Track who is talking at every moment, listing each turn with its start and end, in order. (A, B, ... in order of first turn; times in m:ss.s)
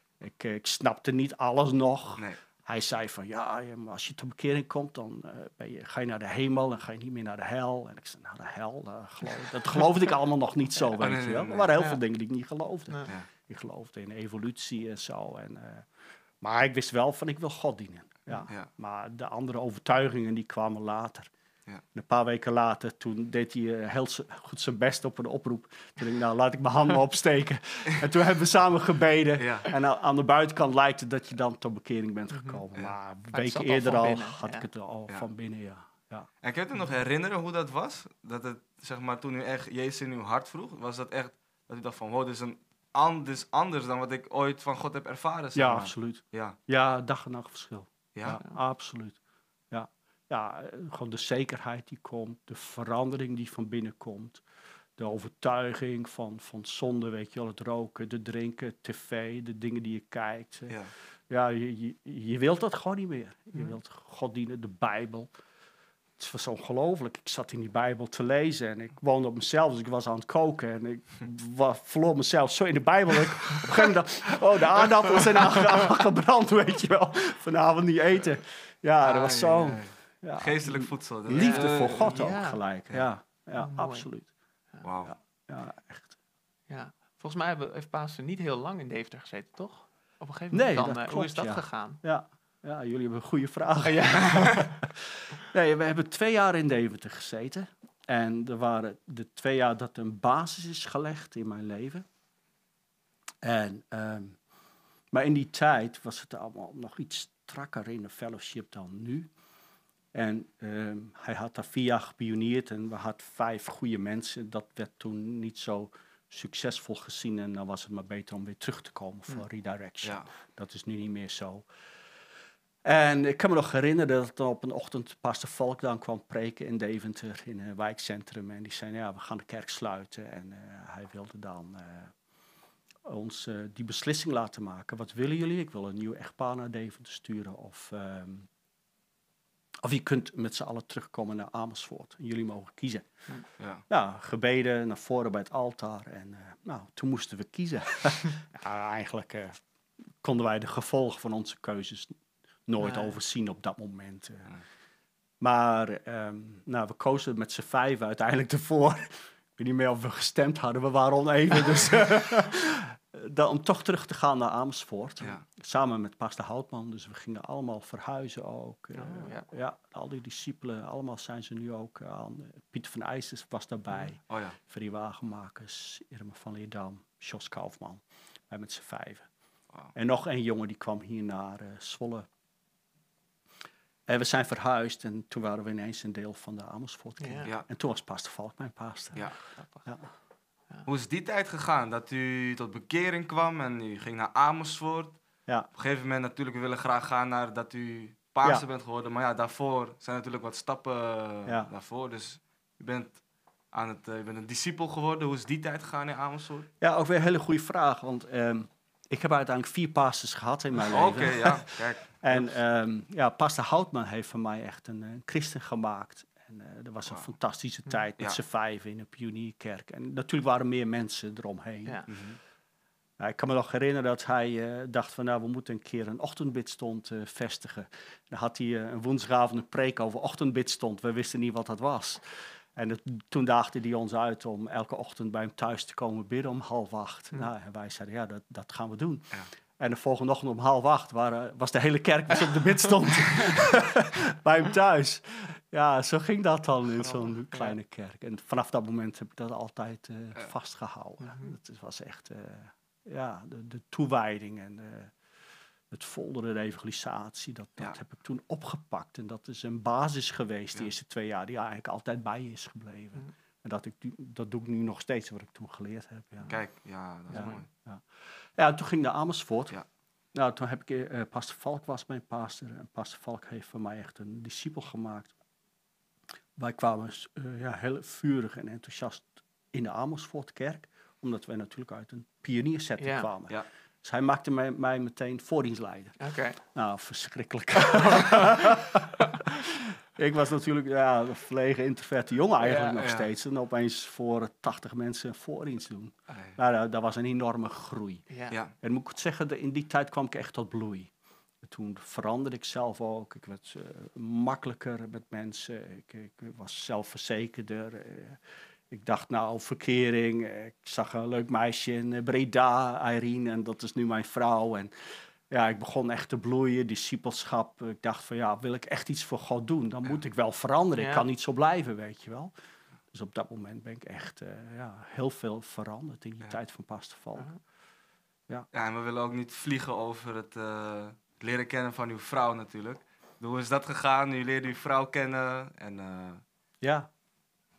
0:00.2-0:15.9 A
0:11.0-0:11.8 B
0:16.4-0:21.3 A
0:21.9-0:36.3 A
0:29.4-0:29.7 B
0:33.3-0:34.6 C
0:36.4-0:46.6 B
0:45.5-0:49.2 A
0:48.1-0:48.4 B
0:49.7-0:54.4 A
0:55.0-1:00.8 A
1:01.3-1:05.3 A
1:06.2-1:24.3 A
1:19.0-1:22.2 B
1:21.3-1:22.6 C
1:23.6-1:24.1 C
1:24.8-1:25.2 B
1:25.0-1:26.1 A
1:26.7-1:32.0 C
1:30.5-1:42.0 A
1:33.8-1:34.7 C
1:43.4-1:44.4 A
1:45.1-1:49.3 A
1:50.1-2:01.7 A
2:00.0-2:00.3 B
2:02.8-2:12.1 A
2:13.0-2:18.5 A
2:19.8-2:23.2 A
2:23.9-2:29.6 A
2:30.2-2:32.1 A
2:32.6-2:34.5 A
2:32.8-2:33.1 C
2:35.4-2:59.2 A
2:49.0-2:49.5 C
2:54.3-2:54.6 B
2:59.9-3:02.3 A
3:04.1-3:09.3 A
3:07.2-3:07.5 C
3:09.6-3:09.8 C
3:10.8-3:15.2 B
3:15.7-3:23.2 B
3:21.4-3:21.7 A
3:23.7-3:26.7 B
3:26.8-3:42.1 A
3:30.9-3:32.5 B
3:42.1-3:42.4 B
3:43.2-4:15.1 A
4:07.0-4:07.7 C
4:15.9-4:26.5 A
4:26.5-4:27.7 B
4:27.3-4:28.0 A
4:27.3-4:27.6 C
4:28.6-4:29.8 A
4:30.3-4:35.3 A
4:36.6-4:58.2 A
4:43.0-4:43.3 C
4:46.2-4:46.6 C
4:47.9-4:48.4 C
4:52.6-4:53.0 C
4:53.0-4:53.3 B
4:56.3-4:56.6 B
4:58.8-5:01.1 A
5:01.6-5:22.5 A
5:21.0-5:21.2 C
5:23.1-5:27.5 A
5:28.7-5:36.4 B
5:36.8-5:37.1 A